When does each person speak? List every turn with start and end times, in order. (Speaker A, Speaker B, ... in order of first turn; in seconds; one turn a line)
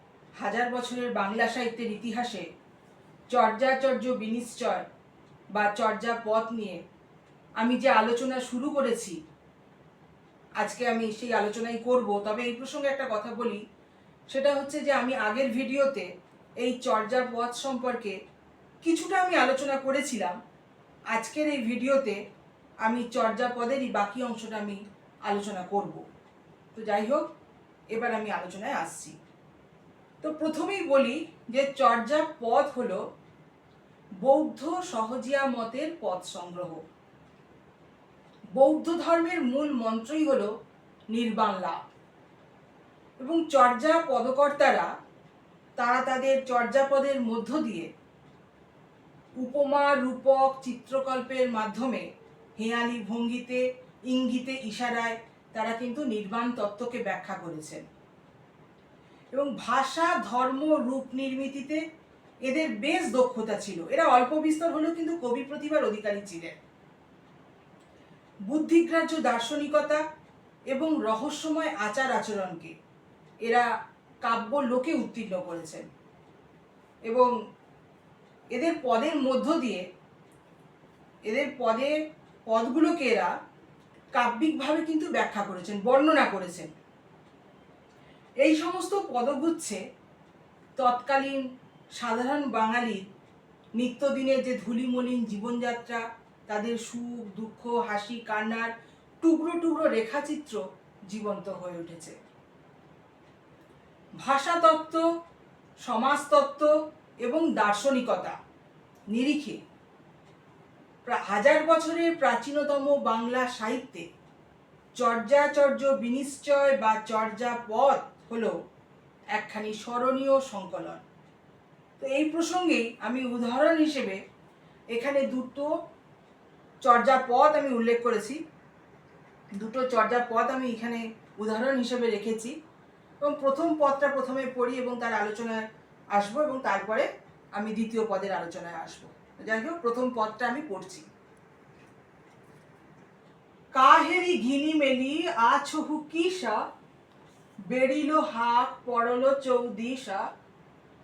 Speaker A: 0.4-2.4
Speaker A: 3.3-4.8
Speaker A: 5.5-6.8
Speaker A: 7.6-9.2
Speaker A: 10.6-13.6
Speaker A: 14.3-16.1
Speaker A: 16.6-18.1
Speaker A: 18.8-20.4
Speaker A: 21.1-22.2
Speaker A: 22.8-26.0
Speaker A: 26.7-27.3
Speaker A: 27.9-29.1
Speaker A: 30.2-33.0
Speaker A: 34.2-36.8
Speaker A: 38.5-40.5
Speaker A: 41.1-41.8
Speaker A: 43.2-44.9
Speaker A: 45.8-47.9
Speaker A: 49.4-52.0
Speaker A: 52.6-57.8
Speaker A: 59.3-61.8
Speaker A: 62.4-66.6
Speaker A: 68.5-70.0
Speaker A: 70.7-72.7
Speaker A: 74.2-75.9
Speaker A: 77.1-77.3
Speaker A: 78.5-79.8
Speaker A: 81.2-83.3
Speaker A: 84.1-86.7
Speaker A: 88.4-89.8
Speaker A: 90.8-91.4
Speaker A: 92.0-93.0
Speaker A: 93.7-98.7
Speaker A: 99.2-102.1
Speaker A: 104.2-105.0
Speaker A: 105.8-106.7
Speaker A: 107.2-108.4
Speaker A: 109.1-109.6
Speaker A: 111.0-114.0
Speaker A: 115.0-118.5
Speaker A: 119.3-121.0
Speaker A: 122.0-124.2
Speaker A: 124.9-125.7
Speaker A: 126.8-128.4
Speaker A: 129.6-132.5
Speaker A: 133.2-141.1
Speaker A: 143.7-146.6
Speaker A: 147.7-150.2